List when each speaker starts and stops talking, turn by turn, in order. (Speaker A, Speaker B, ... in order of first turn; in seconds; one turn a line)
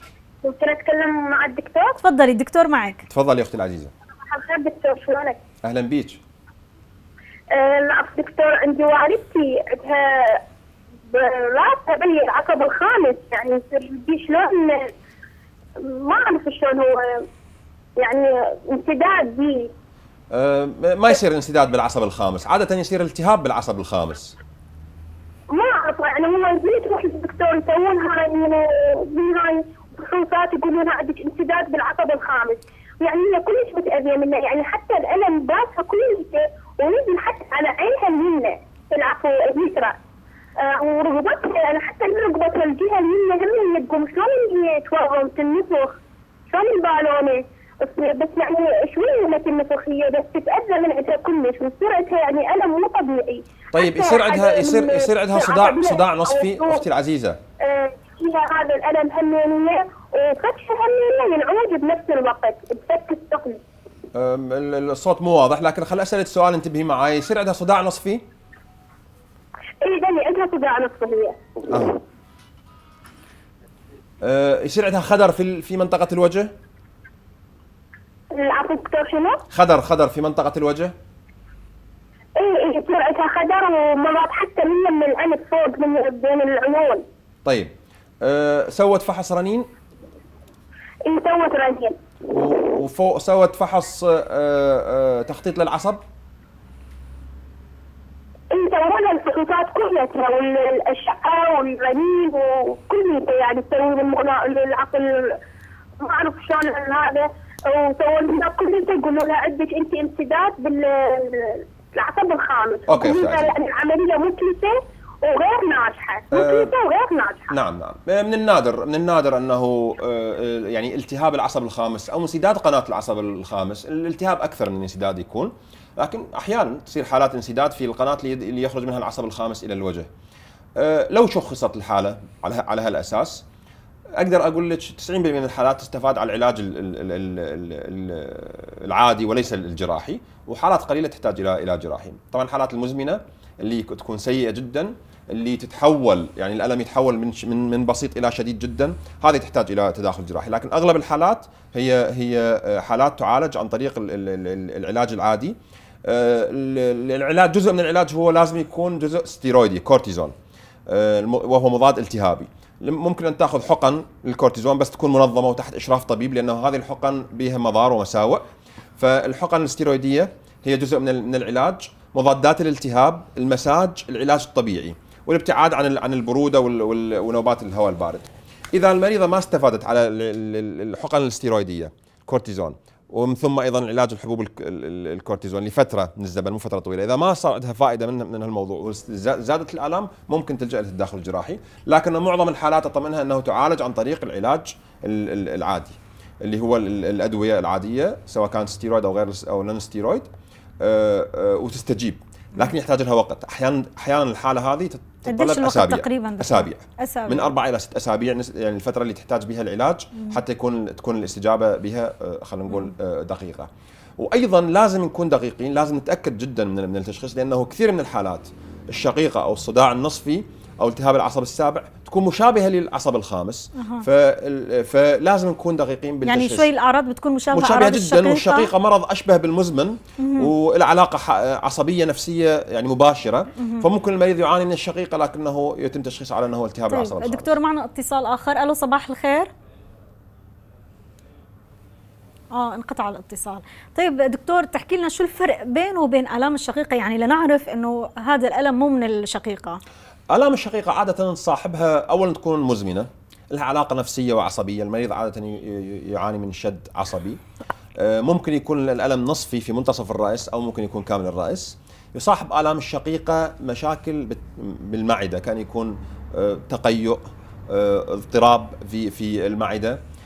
Speaker A: 0.4-2.0
Speaker B: 2.0-3.0
Speaker C: 3.0-3.9
Speaker A: 4.3-5.4
Speaker C: 5.6-6.2
Speaker A: 7.5-10.4
Speaker A: 11.1-14.9
Speaker A: 15.8-17.3
Speaker A: 18.0-19.7
Speaker C: 20.3-24.4
Speaker A: 25.5-40.0
Speaker A: 40.6-56.8
Speaker C: 53.7-57.4
Speaker A: 57.6-63.6
Speaker C: 64.1-68.2
Speaker A: 69.8-71.7
Speaker C: 71.7-72.0
Speaker C: 74.2-76.5
Speaker A: 78.3-79.4
Speaker C: 79.5-80.9
Speaker A: 82.3-87.0
Speaker C: 87.4-87.7
Speaker C: 88.2-89.7
Speaker A: 91.0-92.0
Speaker C: 92.3-96.0
Speaker A: 98.5-105.4
Speaker A: 106.0-117.5
Speaker C: 112.9-113.5
Speaker C: 116.3-116.7
Speaker C: 117.5-130.1
Speaker C: 130.8-133.4
Speaker C: 134.2-160.3
Speaker C: 160.9-168.5
Speaker C: 169.0-200.3
Speaker C: 200.8-213.7
Speaker B: 205.3-207.5
Speaker C: 214.2-226.7
Speaker B: 223.8-224.0
Speaker B: 226.2-228.7
Speaker C: 227.5-237.6
Speaker B: 230.2-230.5
Speaker B: 233.6-233.8
Speaker B: 236.9-239.5
Speaker B: 242.5-249.8
Speaker C: 250.3-257.4
Speaker C: 258.0-270.0